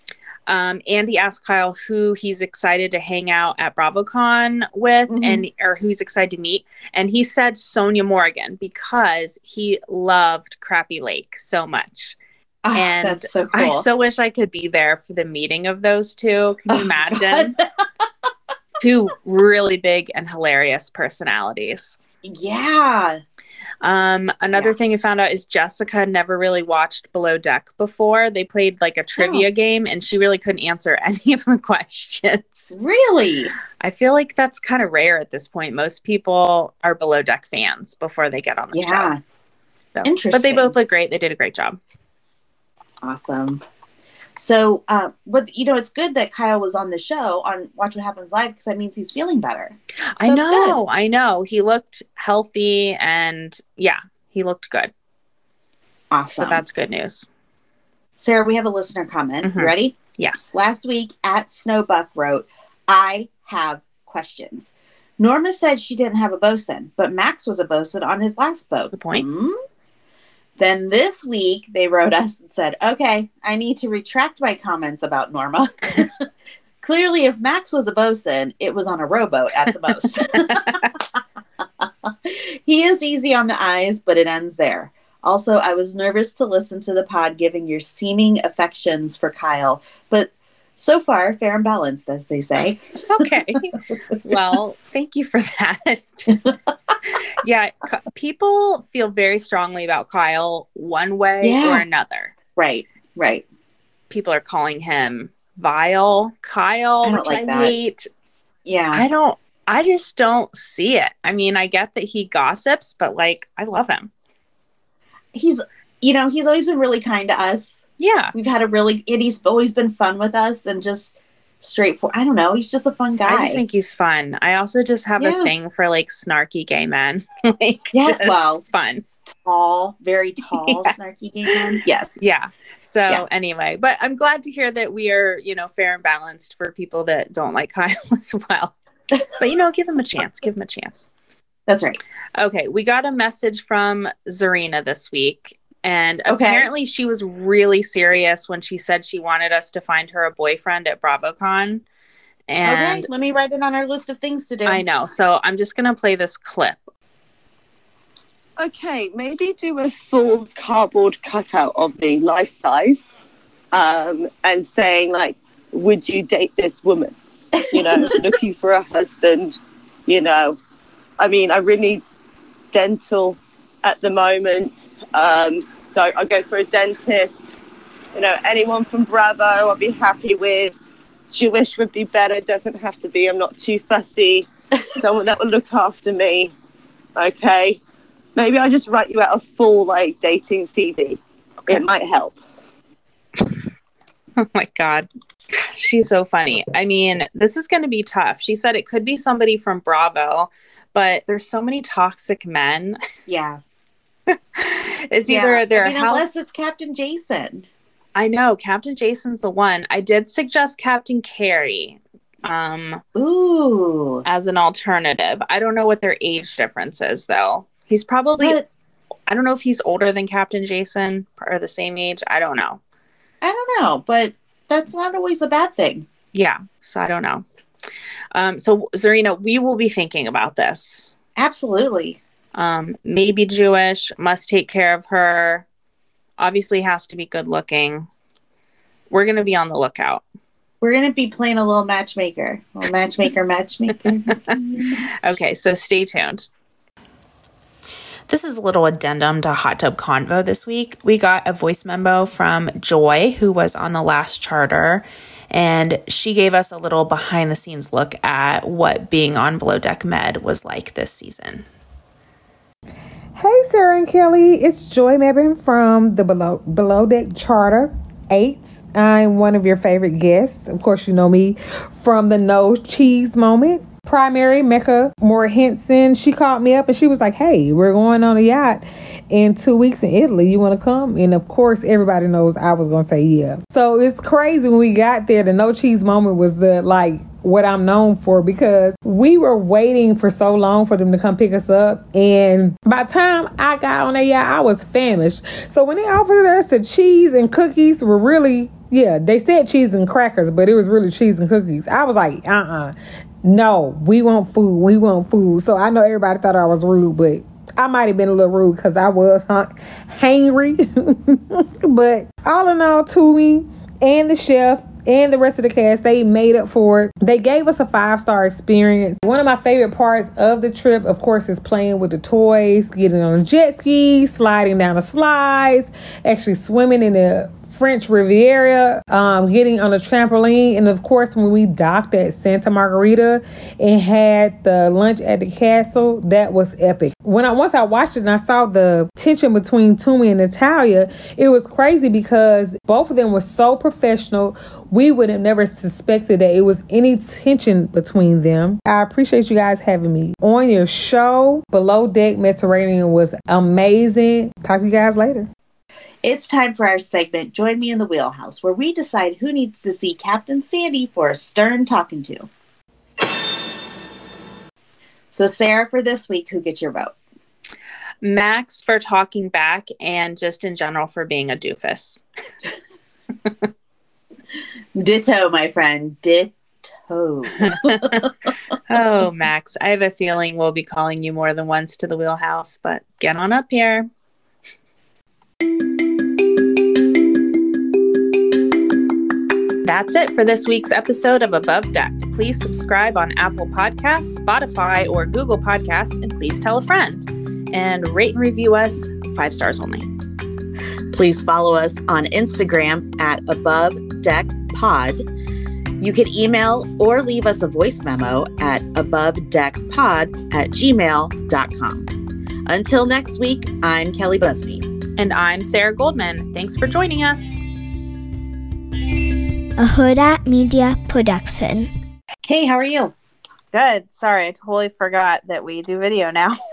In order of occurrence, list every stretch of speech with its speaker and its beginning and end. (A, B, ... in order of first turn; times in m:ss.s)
0:00.5-0:12.2 A
0:05.1-0:05.5 B
0:12.6-0:13.9 B
0:12.7-0:17.6 A
0:16.7-0:17.6 B
0:18.8-0:22.0 A
0:22.2-0:23.2 B
0:23.8-0:32.7 A
0:29.2-0:29.5 B
0:32.7-0:33.5 B
0:33.8-0:39.1 A
0:38.7-0:39.2 B
0:39.9-0:41.8 A
0:40.0-0:40.8 B
0:43.0-0:43.6 B
0:44.4-0:50.8 B
0:50.2-0:54.9 A
0:56.1-0:56.6 B
0:56.4-0:57.3 A
0:58.2-1:00.0 B
0:59.4-1:00.6 A
1:00.5-1:09.6 B
1:08.9-1:09.3 A
1:10.6-1:16.2 B
1:16.8-1:21.0 B
1:20.3-1:20.9 A
1:21.8-1:33.2 B
1:33.1-1:36.4 A
1:37.1-1:42.3 A
1:41.4-1:41.8 B
1:42.6-1:43.4 B
1:44.1-1:48.1 A
1:47.0-1:47.8 B
1:48.6-1:49.0 B
1:48.9-1:54.1 A
1:55.3-2:03.6 B
1:58.0-1:58.3 A
2:03.2-2:09.0 A
2:05.2-2:05.5 B
2:07.9-2:08.6 B
2:09.3-2:12.2 B
2:10.5-2:10.9 A
2:12.2-2:18.8 A
2:19.3-2:21.1 A
2:21.7-2:22.0 B
2:22.4-2:31.8 A
2:26.3-2:26.7 B
2:32.5-2:33.1 A
2:32.6-2:34.8 B
2:34.7-2:36.9 A
2:38.6-2:43.1 C
2:43.7-2:47.2 C
2:47.7-2:50.6 C
2:47.7-2:48.2 B
2:51.2-2:52.0 C
2:52.7-2:57.6 C
2:58.2-3:00.8 C
3:01.3-3:06.5 C
3:07.2-3:07.8 C
3:08.4-3:12.4 C
3:14.4-3:23.0 A
3:23.3-3:23.6 B
3:24.3-3:26.4 A
3:25.3-3:27.7 B
3:28.2-3:33.0 A
3:33.1-3:34.2 B
3:34.2-3:38.6 A
3:38.4-3:38.7 B
3:39.3-3:42.8 A
3:43.4-3:46.1 B
3:46.3-3:47.4 A
3:48.3-3:51.1 A
3:51.4-3:52.2 B
3:52.6-3:55.7 A
3:56.4-3:58.1 A
3:59.1-4:00.2 A
4:00.8-4:05.0 B
4:05.2-4:06.5 A
4:08.3-4:21.7 A
4:23.4-5:55.5 D
5:56.2-6:02.5 B
6:05.3-6:07.2 B
6:08.2-6:12.2 A
6:15.0-6:18.3 B
6:17.6-6:18.3 A
6:18.9-6:24.1 A
6:29.8-6:40.1 A
6:41.1-6:45.2 B
6:46.0-6:52.1 B
6:52.7-6:54.9 B
6:55.2-6:57.6 A
6:59.8-7:01.9 E
7:02.5-7:03.1 B
7:03.7-7:06.6 A